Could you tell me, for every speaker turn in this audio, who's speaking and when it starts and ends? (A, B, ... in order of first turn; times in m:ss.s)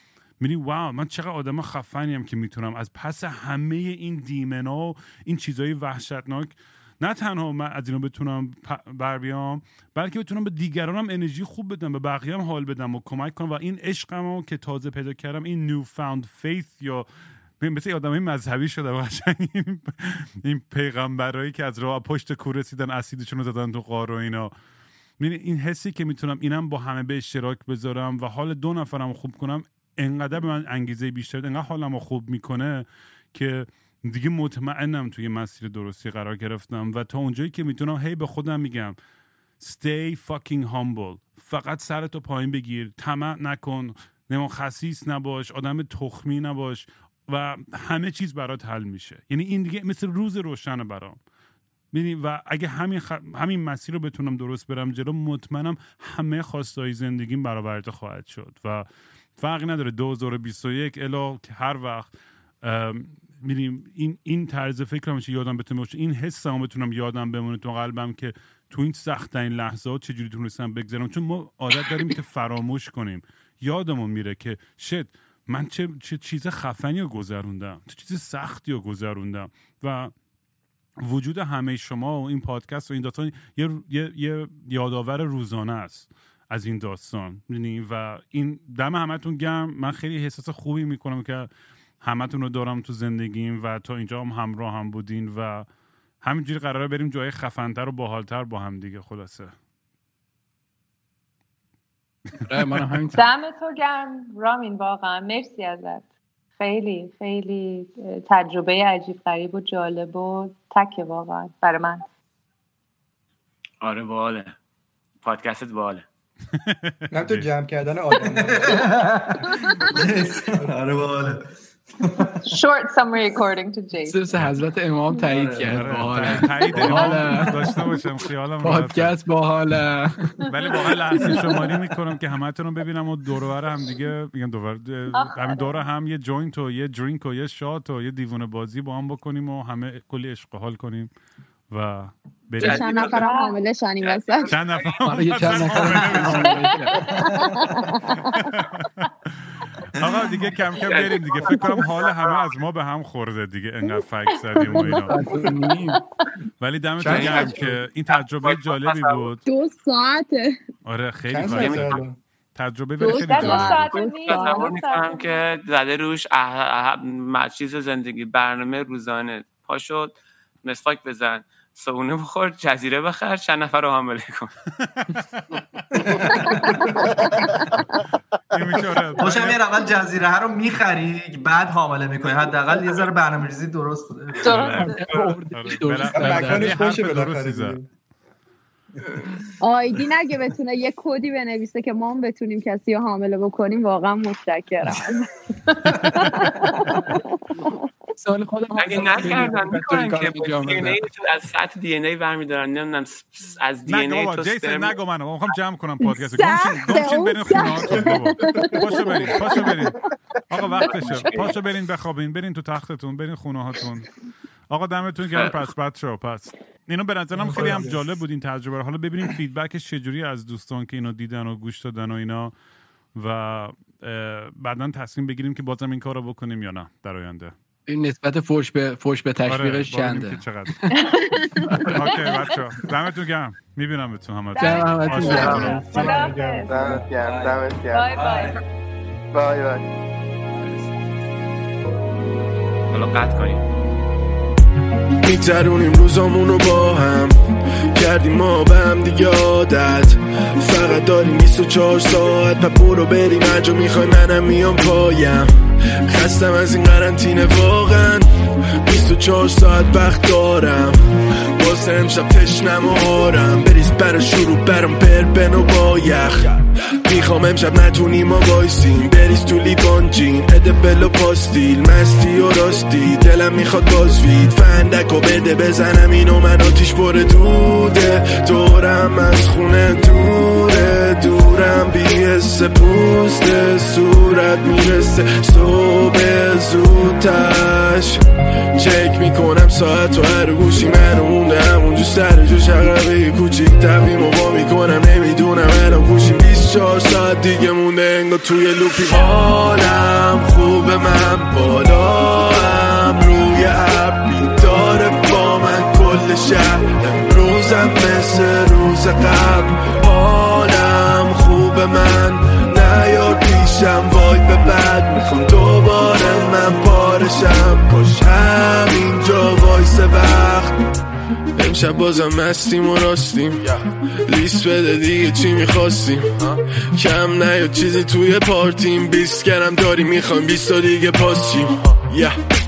0:00.4-0:17.1 A
0:17.6-0:24.5 A
0:25.2-0:39.0 A
0:39.6-0:51.2 A
0:51.9-1:02.1 A
1:02.6-1:20.1 A
1:21.0-1:31.5 A
1:32.0-1:35.7 A
1:36.2-1:39.5 A
1:42.4-1:43.2 B
1:42.7-1:43.1 A
1:43.2-1:46.0 C
1:46.6-1:52.0 C
1:53.8-1:54.6 D
1:55.2-1:56.0 D
1:56.5-1:57.5 A
1:57.1-1:58.9 E
1:58.3-2:01.4 F
2:02.0-2:02.6 F
2:02.4-2:04.3 C
2:04.1-2:07.9 B
2:05.2-2:06.4 F
2:05.7-2:09.2 A
2:08.6-2:10.5 B
2:10.5-2:21.1 A
2:15.3-2:15.8 C
2:21.7-2:23.3 A
2:22.6-2:22.9 B
2:22.6-2:23.4 D
2:22.6-2:24.5 G
2:23.2-2:23.6 C
2:24.0-2:26.5 D
2:24.5-2:26.7 A
2:25.0-2:27.2 B
2:26.9-2:28.3 G
2:27.2-2:27.8 F
2:28.2-2:29.1 A
2:30.0-2:35.2 A
2:30.8-2:32.6 D
2:34.7-2:36.0 B
2:36.6-2:39.4 A
2:37.0-2:37.8 E
2:37.0-2:39.3 D
2:39.5-2:40.5 G
2:40.9-2:43.9 A
2:41.3-2:42.2 E
2:41.4-2:42.0 D
2:43.0-2:44.7 G
2:43.1-2:45.4 C
2:43.9-2:54.5 D
2:54.8-2:55.6 A
2:56.0-2:57.2 F
2:58.5-2:59.6 A
2:59.2-3:04.8 F
3:04.4-3:05.0 A
3:04.5-3:04.9 C
3:04.8-3:06.9 B
3:04.8-3:05.2 D
3:05.5-3:07.8 A
3:06.1-3:07.9 E
3:09.6-3:17.2 G
3:16.0-3:16.4 A
3:17.5-3:21.0 B
3:18.8-3:25.0 D
3:23.9-3:30.0 A
3:26.0-3:29.7 G
3:30.5-3:34.1 A
3:30.8-3:31.6 D
3:34.7-3:42.5 A
3:35.3-3:35.6 D
3:37.3-3:38.0 F
3:43.2-3:47.5 A
3:47.9-3:52.3 B
3:49.5-3:56.6 A
3:54.6-3:57.0 C
3:54.6-3:56.3 B
3:55.2-3:55.6 G
3:55.3-3:55.8 D
3:55.9-3:58.6 F
3:56.7-3:58.1 H
3:57.9-3:58.6 C
3:59.3-3:59.8 H
4:02.9-4:03.6 D
4:05.2-4:07.4 I
4:07.9-4:48.2 I
4:48.8-5:20.8 I
5:21.6-5:32.4 I